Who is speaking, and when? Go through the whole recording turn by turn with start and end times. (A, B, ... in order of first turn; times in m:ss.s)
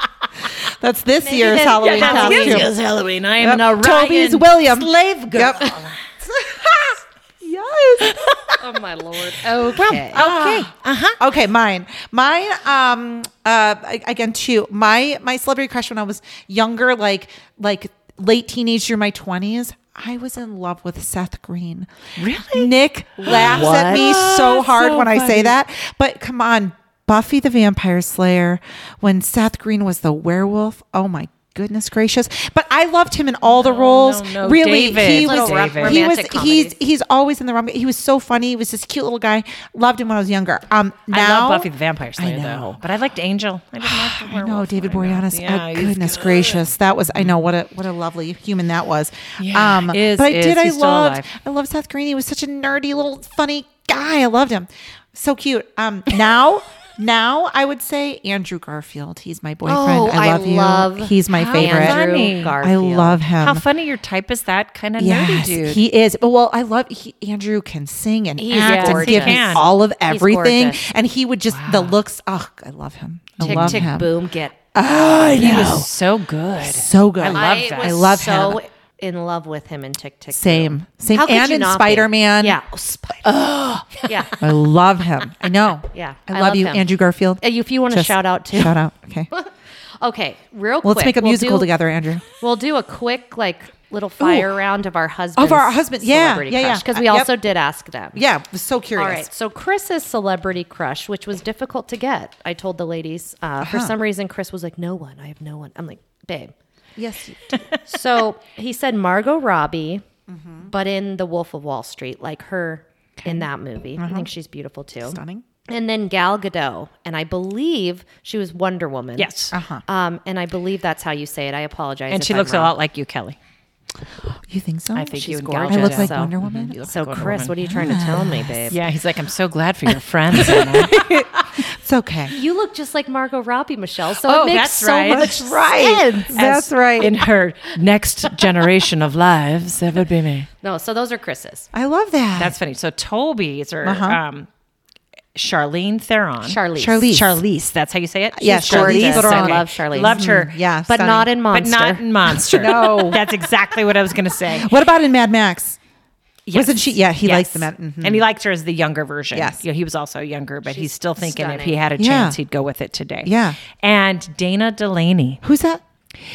0:00.7-0:02.7 A
0:01.2-0:02.7 B
0:01.8-0:06.1 C
0:03.4-0:08.2 A
0:08.0-0:08.6 C
0:08.6-0:10.3 B
0:09.6-0:11.2 C
0:09.8-0:21.9 A
0:22.2-0:25.6 C
0:22.5-0:42.8 A
0:33.4-0:36.0 C
0:35.0-0:36.8 B
0:41.1-0:46.6 C
0:43.8-1:02.0 A
0:49.4-0:51.3 C
0:59.6-1:03.2 B
1:01.3-1:02.6 C
1:02.6-1:03.6 A
1:03.4-1:05.8 C
1:05.0-1:14.1 A
1:08.4-1:10.9 B
1:08.5-1:09.6 C
1:11.5-1:12.0 C
1:13.4-1:13.9 C
1:13.4-1:14.6 B
1:14.7-1:15.9 A
1:15.1-1:18.3 C
1:16.6-1:18.6 A
1:17.2-1:23.3 B
1:20.3-1:22.6 A
1:23.2-1:24.3 C
1:24.1-1:24.4 B
1:24.4-1:29.3 A
1:25.9-1:26.9 B
1:27.4-1:28.8 B
1:29.3-1:31.7 B
1:30.8-1:32.2 A
1:32.4-1:38.2 B
1:34.2-1:34.5 A
1:35.4-1:37.3 A
1:38.2-1:39.3 A
1:39.0-1:46.5 B
1:43.6-1:43.9 A
1:47.0-1:47.7 A
1:47.8-1:50.0 B
1:50.3-1:50.7 A
1:50.6-1:59.3 B
1:54.0-1:54.3 A
1:55.0-1:55.4 A
1:59.2-1:59.6 C
1:59.5-1:59.8 A
1:59.9-2:02.7 B
2:02.1-2:03.4 C
2:04.5-2:06.7 A
2:04.9-2:07.6 C
2:05.2-2:08.8 B
2:07.6-2:08.8 A
2:08.7-2:11.1 C
2:10.3-2:12.3 A
2:12.3-2:16.2 B
2:14.2-2:20.5 C
2:15.1-2:17.1 A
2:20.6-2:21.7 B
2:21.7-2:22.6 A
2:22.4-2:24.5 C
2:23.8-2:24.2 A
2:25.4-2:30.6 C
2:26.4-2:27.2 B
2:26.8-2:27.4 A
2:28.4-2:31.3 A
2:28.5-2:30.3 B
2:30.9-2:32.0 B
2:31.5-2:34.7 C
2:32.3-2:33.2 A
2:34.5-2:35.8 A
2:36.5-2:45.4 C
2:36.5-2:38.2 A
2:39.3-2:39.6 A
2:40.7-2:41.8 B
2:42.0-2:42.4 A
2:43.2-2:43.6 A
2:45.4-2:45.8 A